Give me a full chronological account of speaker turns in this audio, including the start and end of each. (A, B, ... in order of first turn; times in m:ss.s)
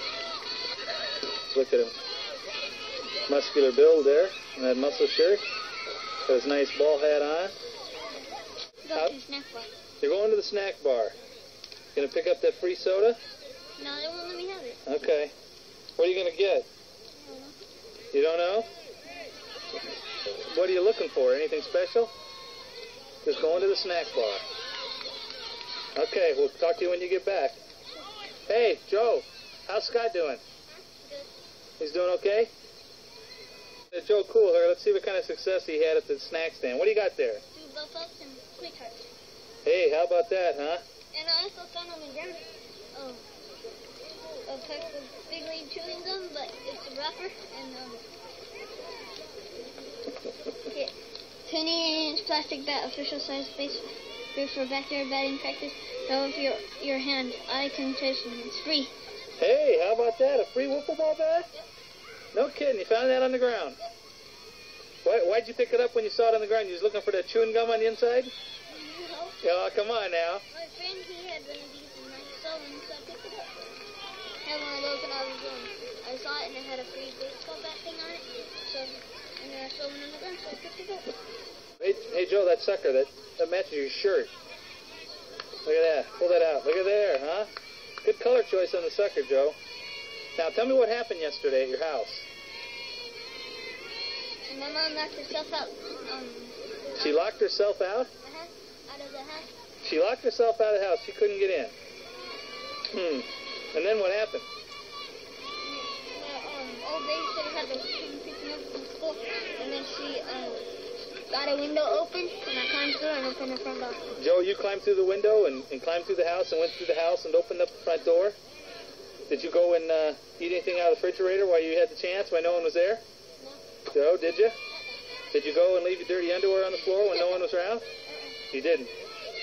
0:01.5-0:01.9 A
0:03.3-0:05.4 A
0:06.3-0:07.5 A
0:08.8-0:09.7 B
0:10.0-0:11.1 A
0:12.0-0:13.2 A
0:13.8-0:14.8 B
0:14.9-0:15.3 A
0:16.0-0:16.7 A
0:17.2-0:17.5 B
0:18.1-0:18.7 A
0:20.4-0:22.1 A
0:23.2-0:24.4 A
0:26.0-0:27.6 A
0:28.5-0:30.4 A
0:30.7-0:31.3 B
0:31.8-0:32.5 A
0:33.9-0:37.4 A
0:37.5-0:39.1 B
0:39.6-0:40.8 A
0:41.1-0:43.2 B
0:44.4-0:48.0 B
0:50.7-0:50.9 B
0:51.4-0:58.9 B
0:59.4-1:01.5 A
1:02.3-1:03.8 A
1:05.0-1:08.3 A
1:08.7-1:09.4 B
1:09.4-1:10.4 A
1:10.5-1:13.8 B
1:14.4-1:21.1 B
1:21.8-1:24.3 A
1:25.6-1:27.5 A
1:28.0-1:29.6 A
1:30.4-1:32.3 A
1:34.5-1:37.3 B
1:37.0-1:38.1 A
1:38.2-1:39.5 B
1:39.8-1:41.8 A
1:42.9-1:44.5 A
1:45.7-1:50.7 B
1:51.3-1:54.0 B
1:54.1-1:58.4 A
1:59.3-2:03.0 A
2:03.9-2:04.6 A
2:05.3-2:07.8 A
2:08.0-2:08.4 B
2:08.5-2:08.9 A